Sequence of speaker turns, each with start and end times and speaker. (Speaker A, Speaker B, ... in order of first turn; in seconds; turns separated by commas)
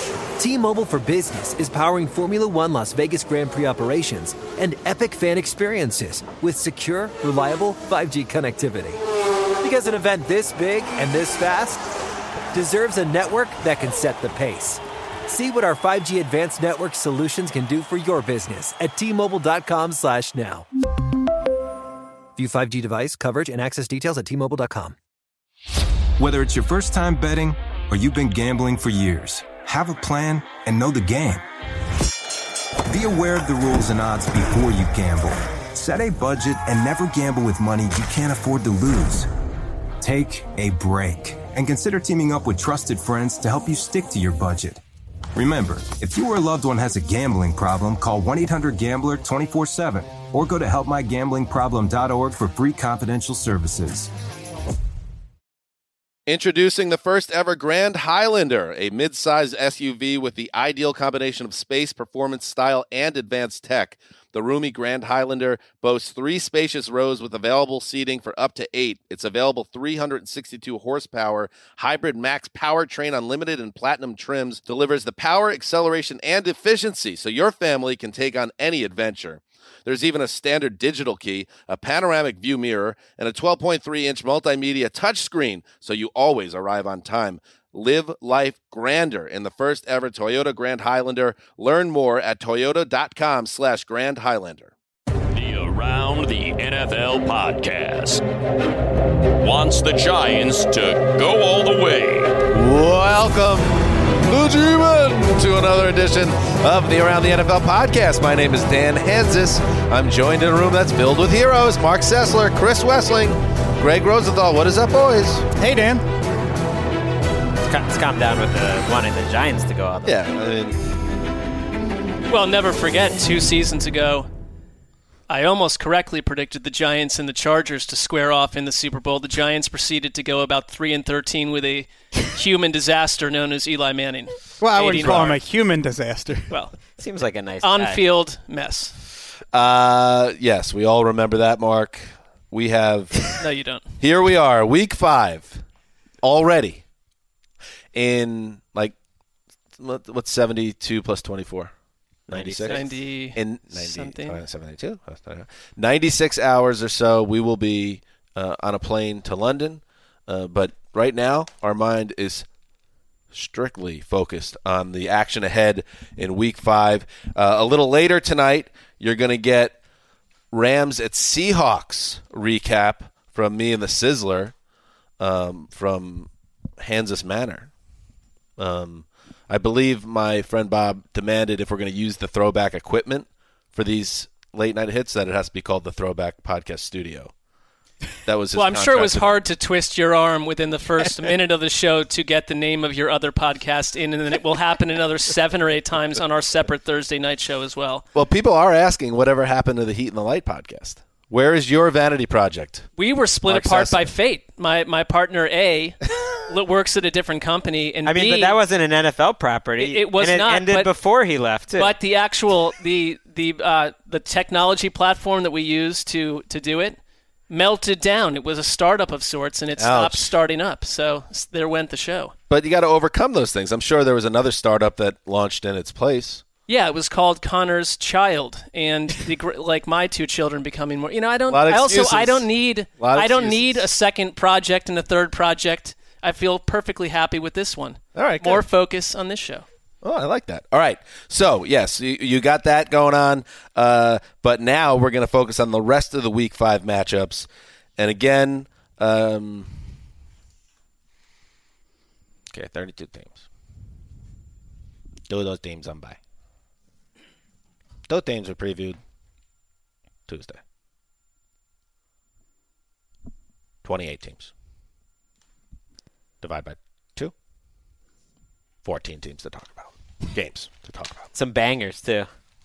Speaker A: 0.4-9.0, Speaker A: 9.6-11.9, Speaker A: 12.5-20.7, Speaker A: 22.4-24.9, Speaker B: 26.2-31.4, Speaker B: 32.9-39.3, Speaker B: 40.0-44.8, Speaker B: 45.3-54.1, Speaker C: 56.3-94.7, Speaker D: 95.3-98.2, Speaker D: 99.4-102.4, Speaker C: 102.5-115.5, Speaker E: 115.6-116.0, Speaker F: 117.6-120.2, Speaker C: 120.0-120.8, Speaker G: 122.3-124.3, Speaker G: 125.3-135.3, Speaker E: 134.6-136.5, Speaker C: 134.9-135.3, Speaker F: 137.0-138.0, Speaker G: 137.6-138.9, Speaker C: 139.5-143.3, Speaker G: 143.3-143.8, Speaker C: 144.0-145.6, Speaker C: 146.2-146.8, Speaker C: 147.9-148.9, Speaker C: 149.8-151.7, Speaker C: 152.3-162.5, Speaker G: 152.3-154.4, Speaker C: 163.3-169.8, Speaker C: 170.5-174.5, Speaker C: 175.2-176.3, Speaker C: 176.8-177.7, Speaker C: 178.6-187.3, Speaker C: 188.2-189.4, Speaker G: 188.5-198.0, Speaker C: 198.1-202.9, Speaker G: 203.0-208.6, Speaker C: 203.5-204.1, Speaker F: 208.0-211.9, Speaker G: 209.8-210.9, Speaker G: 211.8-217.0, Speaker G: 217.5-222.3, Speaker C: 219.8-220.2, Speaker C: 222.5-226.4, Speaker G: 226.7-239.7, Speaker C: 231.5-233.8, Speaker C: 238.1-238.6, Speaker C: 240.0-247.5, Speaker C: 248.0-249.7, Speaker C: 252.5-253.4, Speaker C: 255.3-256.2, Speaker C: 258.1-259.0, Speaker C: 260.3-260.6, Speaker C: 263.8-264.5, Speaker C: 266.4-267.3, Speaker C: 268.8-271.2, Speaker F: 271.3-272.3